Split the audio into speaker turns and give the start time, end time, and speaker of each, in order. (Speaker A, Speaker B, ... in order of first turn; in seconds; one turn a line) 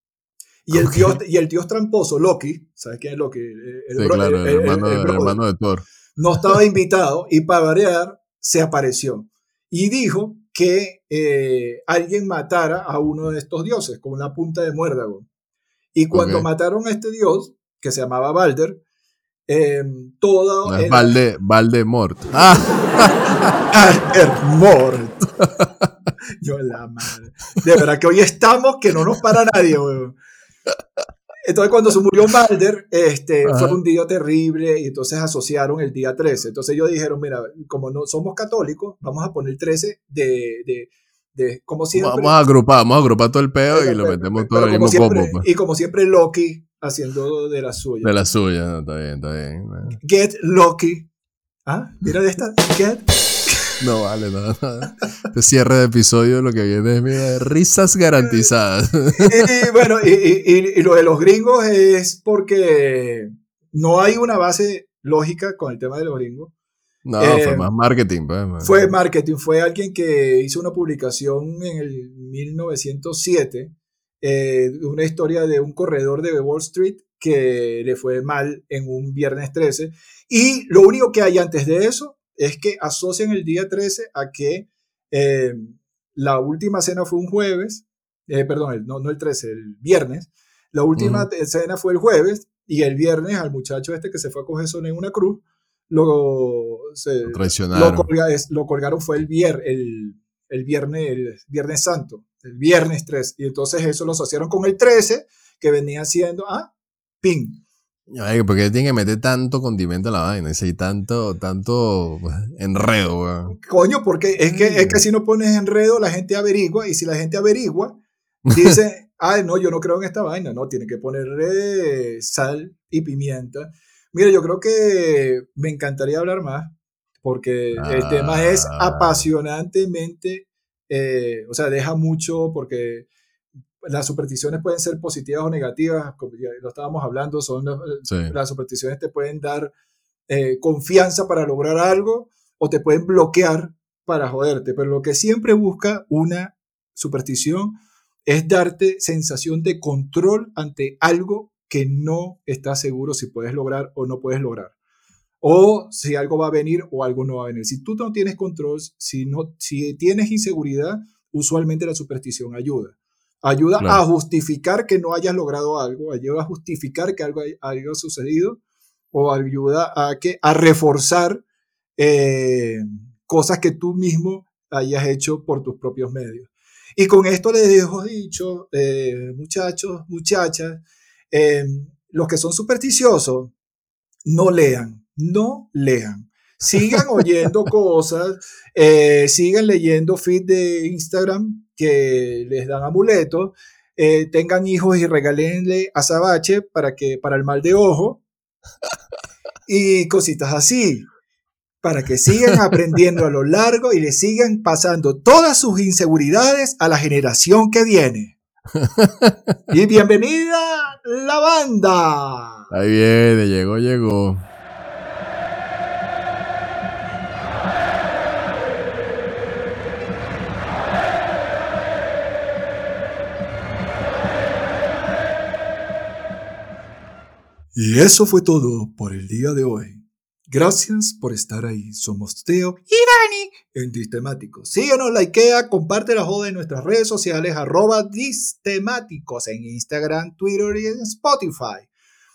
Speaker A: 0.7-5.4
Speaker B: 0.7-1.2
Speaker B: 3.9-5.8
Speaker A: 6.2-15.3
Speaker A: 15.9-18.8
Speaker B: 16.1-16.5
Speaker A: 19.5-21.2
Speaker B: 20.6-23.2
Speaker A: 23.7-25.2
Speaker B: 25.4-25.7
Speaker A: 26.4-30.2
Speaker A: 31.5-42.4
Speaker B: 33.4-33.8
Speaker B: 41.9-45.5
Speaker A: 43.7-48.2
Speaker B: 48.0-50.0
Speaker A: 50.0-51.1
Speaker A: 51.6-53.7
Speaker B: 53.8-59.5
Speaker A: 59.1-66.5
Speaker B: 67.0-68.9
Speaker A: 67.2-67.7
Speaker A: 68.6-107.6
Speaker B: 91.0-91.3
Speaker B: 97.3-98.1
Speaker B: 108.1-113.5
Speaker A: 113.5-118.0
Speaker B: 114.5-115.0
Speaker B: 118.5-118.8
Speaker A: 118.5-133.1
Speaker B: 127.8-129.2
Speaker A: 133.8-139.7
Speaker B: 138.1-138.3
Speaker A: 140.3-154.7
Speaker A: 155.4-168.6
Speaker A: 169.1-171.4
Speaker A: 172.0-183.5
Speaker A: 184.2-198.2
Speaker A: 199.7-201.1
Speaker A: 201.8-208.3
Speaker B: 208.8-209.3
Speaker A: 209.7-212.7
Speaker B: 212.7-214.4
Speaker A: 227.7-241.9